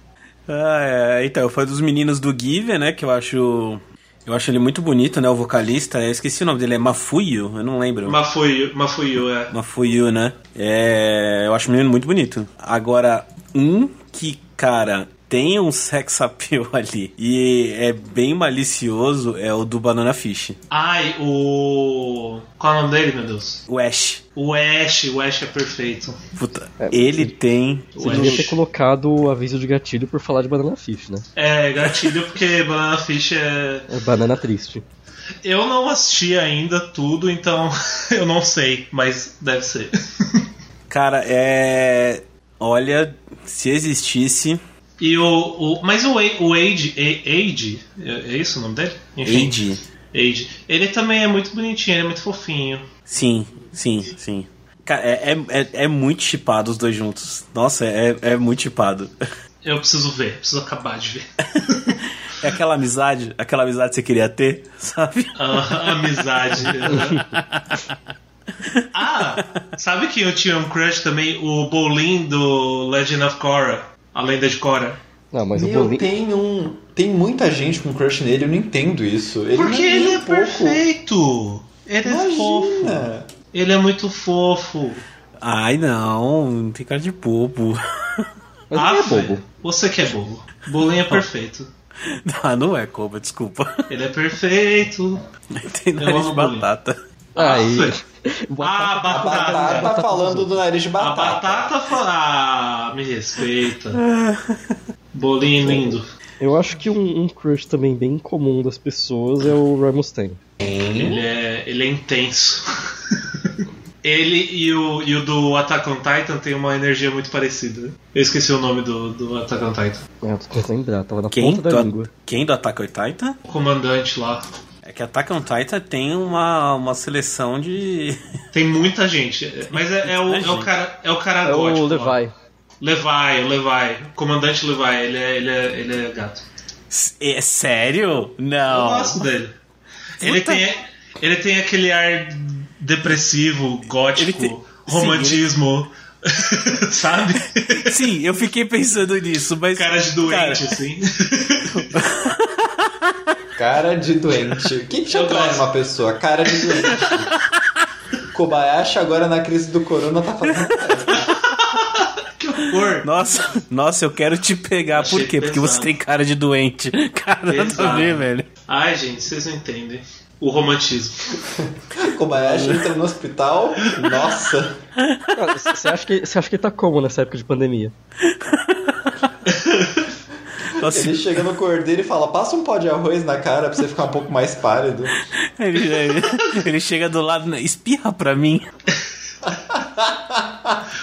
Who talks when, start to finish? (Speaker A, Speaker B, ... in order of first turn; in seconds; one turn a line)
Speaker A: 0.5-8.2
Speaker B: 8.0-9.5
Speaker A: 9.5-20.6
Speaker B: 20.7-23.6
Speaker A: 23.7-24.2
Speaker B: 24.4-26.2
Speaker A: 26.4-28.5
Speaker C: 26.8-27.3
Speaker B: 27.9-28.6
Speaker C: 27.9-31.2
Speaker B: 31.4-33.9
Speaker C: 33.9-34.9
Speaker B: 35.4-40.4
Speaker A: 40.9-44.6
Speaker B: 45.0-49.6
Speaker A: 49.2-49.8
Speaker B: 50.1-52.9
Speaker A: 53.1-59.1
Speaker B: 59.6-62.0
Speaker A: 62.4-65.9
Speaker B: 65.4-67.3
Speaker C: 66.9-67.2
Speaker A: 67.1-67.9
Speaker A: 68.6-69.6
Speaker B: 68.9-75.0
Speaker C: 75.3-76.0
Speaker D: 75.5-80.8
Speaker B: 79.5-85.0
Speaker D: 82.0-83.3
Speaker A: 85.4-88.3
Speaker C: 88.7-89.4
Speaker B: 88.7-91.7
Speaker A: 92.0-93.8
Speaker B: 93.9-95.2
Speaker A: 95.5-97.0
Speaker B: 96.0-96.6
Speaker B: 97.4-98.0
Speaker C: 97.4-100.6
Speaker B: 98.6-99.9
Speaker D: 99.1-101.7
Speaker B: 101.0-104.0
Speaker A: 103.9-104.8
Speaker B: 105.1-106.1
Speaker C: 105.6-110.4
Speaker D: 110.6-111.2
Speaker B: 110.9-120.0
Speaker C: 120.2-122.1
Speaker A: 121.3-123.4
Speaker B: 123.5-124.4
Speaker A: 124.8-128.2
Speaker B: 128.5-132.2
Speaker A: 129.7-130.7
Speaker C: 131.4-132.3
Speaker B: 132.8-136.4
Speaker A: 136.9-139.2
Speaker B: 138.7-139.5
Speaker B: 140.2-148.0
Speaker A: 140.2-140.7
Speaker A: 144.2-145.4
Speaker A: 147.7-150.6
Speaker B: 149.8-151.9
Speaker A: 151.8-153.3
Speaker D: 153.6-157.3
Speaker B: 155.1-155.7
Speaker D: 158.3-161.3
Speaker B: 161.2-163.1
Speaker A: 162.9-168.5
Speaker B: 164.9-165.9
Speaker B: 167.5-171.4
Speaker D: 171.6-174.8
Speaker C: 172.3-172.8
Speaker A: 175.0-175.4
Speaker C: 175.3-177.9
Speaker A: 178.2-179.1
Speaker B: 179.5-180.1
Speaker A: 180.8-181.4
Speaker D: 180.8-185.2
Speaker A: 185.3-188.7
Speaker D: 189.5-190.9